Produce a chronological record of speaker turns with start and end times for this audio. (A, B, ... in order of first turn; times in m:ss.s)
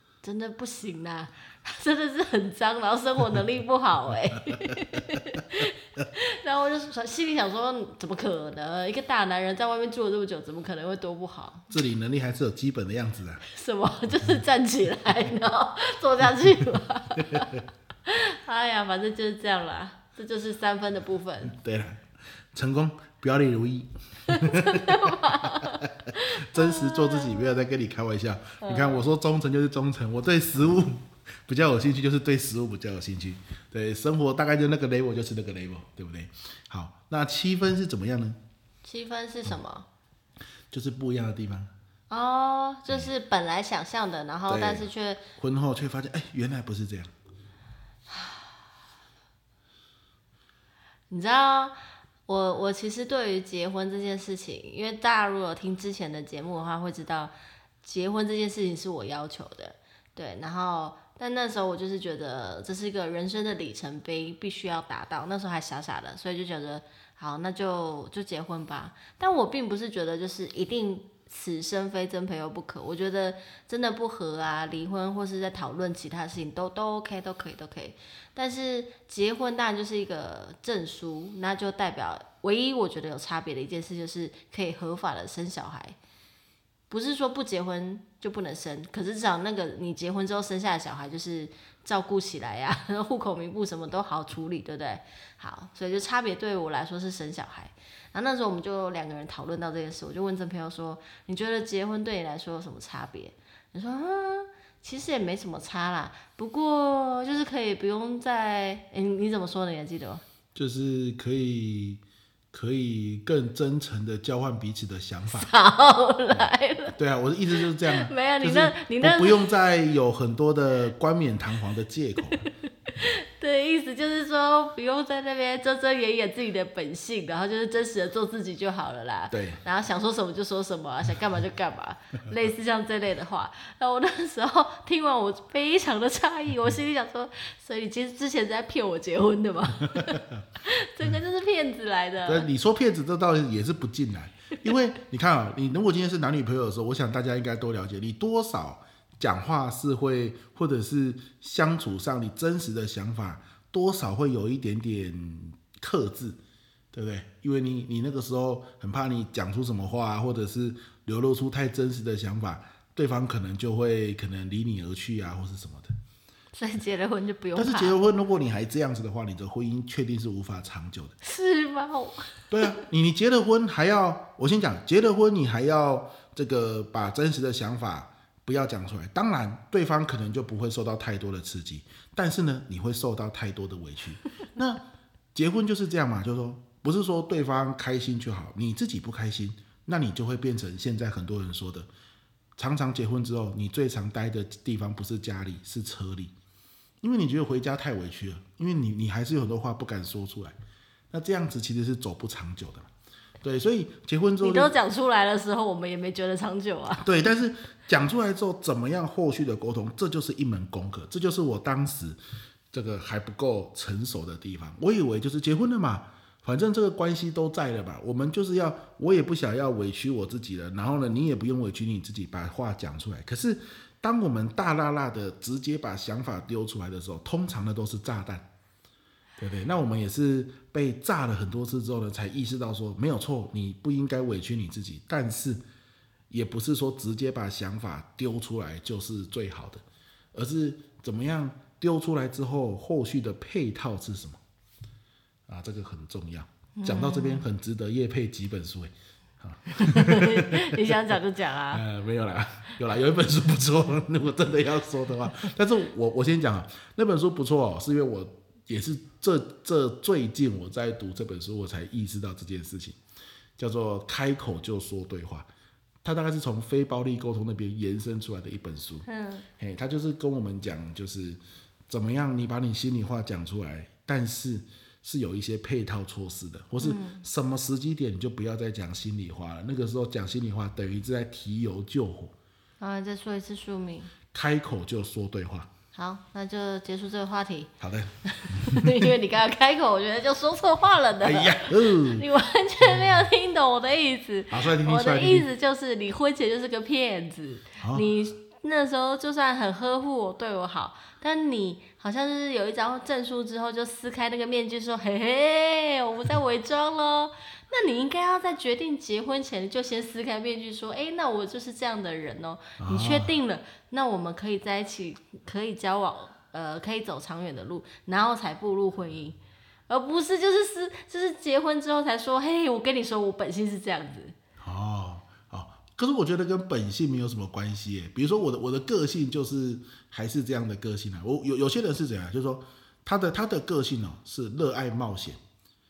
0:00.2-0:11.7 A
0:04.5-0:05.2 B
0:11.7-0:13.4 B
0:13.5-0:21.6 A
0:17.2-0:17.5 B
0:21.5-0:38.4 B
0:24.3-0:27.5 A
0:28.6-0:29.1 A
0:38.8-0:39.9 A
0:40.7-0:41.7 B
0:42.1-0:45.2 A
0:44.5-0:47.1 B
0:48.1-0:48.4 A
0:51.1-0:51.7 A
0:52.3-1:26.0 A
1:26.9-1:50.2 A
1:50.6-1:52.0 B
1:52.5-1:55.5 B
1:55.3-1:57.0 A
1:56.3-2:02.4 B
1:57.8-1:59.4 A
2:02.9-2:22.5 A
2:09.3-2:09.6 B
2:20.0-2:20.4 B
2:22.3-2:36.4 B
2:36.9-2:45.9 B
2:46.5-2:48.0 A
2:47.6-2:51.2 B
2:51.2-2:52.8 A
2:52.5-3:04.8 B
3:05.4-3:11.9 B
3:12.6-3:16.3 B
3:17.0-3:20.6 B
3:21.1-3:22.9 B
3:23.4-3:24.7 B
3:24.4-3:27.1 A
3:27.0-3:32.2 B
3:32.7-3:48.4 B
3:49.4-3:55.6 B
3:56.3-3:59.8 B
4:00.3-4:04.4 B
4:05.5-4:11.0 B
4:06.8-4:07.5 A
4:09.8-4:11.8 A
4:11.7-4:23.0 B
4:23.6-4:25.5 B
4:26.0-4:29.1 B
4:29.1-4:29.5 A
4:29.6-4:42.3 B
4:36.8-4:37.2 A
4:42.8-4:44.1 A
4:44.3-4:45.7 B
4:46.0-4:47.7 A
4:47.8-4:49.1 B
4:48.3-5:19.4 A
4:51.2-4:52.3 B
4:54.5-4:55.5 B
4:57.8-4:58.1 B
5:12.8-5:13.3 B
5:19.9-5:24.4 A
5:24.6-5:35.4 B